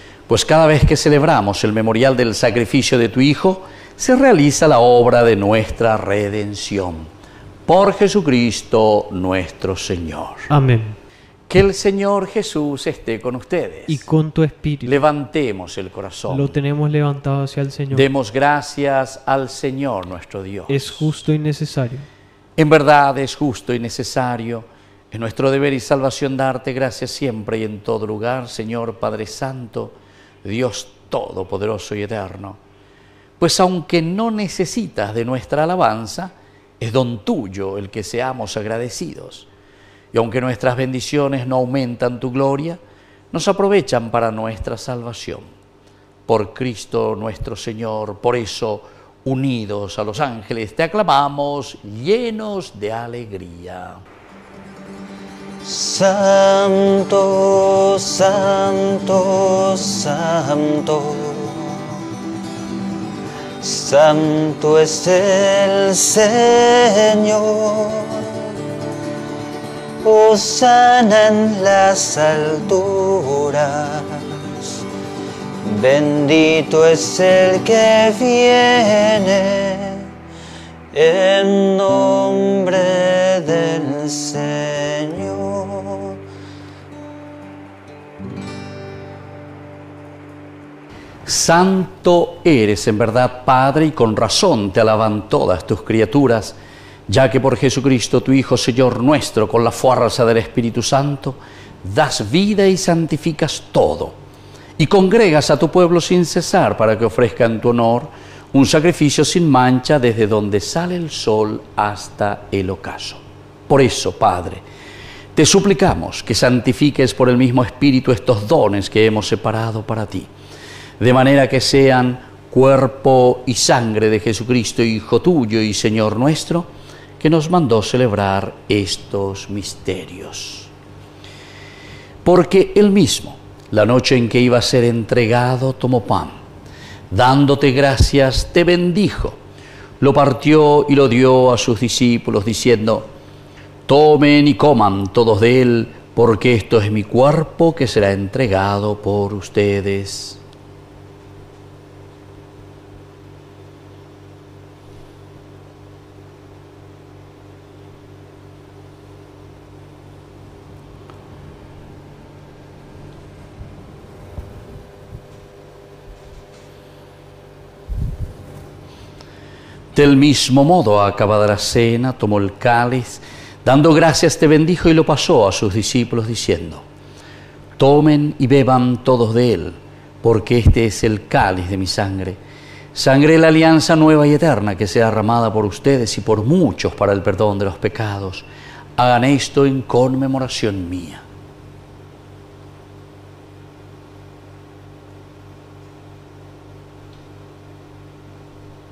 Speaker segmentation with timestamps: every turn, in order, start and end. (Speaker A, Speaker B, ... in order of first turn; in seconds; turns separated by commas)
Speaker A: 0.3-7.1, Speaker A: 7.7-10.5, Speaker B: 10.5-11.0, Speaker A: 11.5-14.1, Speaker B: 13.9-15.0, Speaker A: 14.8-16.6, Speaker B: 16.3-18.1, Speaker A: 17.9-21.1, Speaker B: 20.7-22.1, Speaker A: 22.6-32.6, Speaker A: 33.4-39.5, Speaker A: 40.1-42.8, Speaker A: 43.3-45.5, Speaker A: 46.3-54.0, Speaker C: 55.6-61.9, Speaker C: 63.6-68.5, Speaker C: 70.0-74.7, Speaker C: 75.6-80.1, Speaker C: 80.9-86.2, Speaker A: 91.2-96.6, Speaker A: 97.1-104.2, Speaker A: 104.8-114.6, Speaker A: 115.3-120.3, Speaker A: 121.0-126.7, Speaker A: 127.2-130.7, Speaker A: 132.2-136.4, Speaker A: 137.1-139.4, Speaker A: 140.0-143.1, Speaker A: 143.9-150.4, Speaker A: 169.9-176.8, Speaker A: 177.8-182.4, Speaker A: 182.9-188.4, Speaker A: 189.0-191.2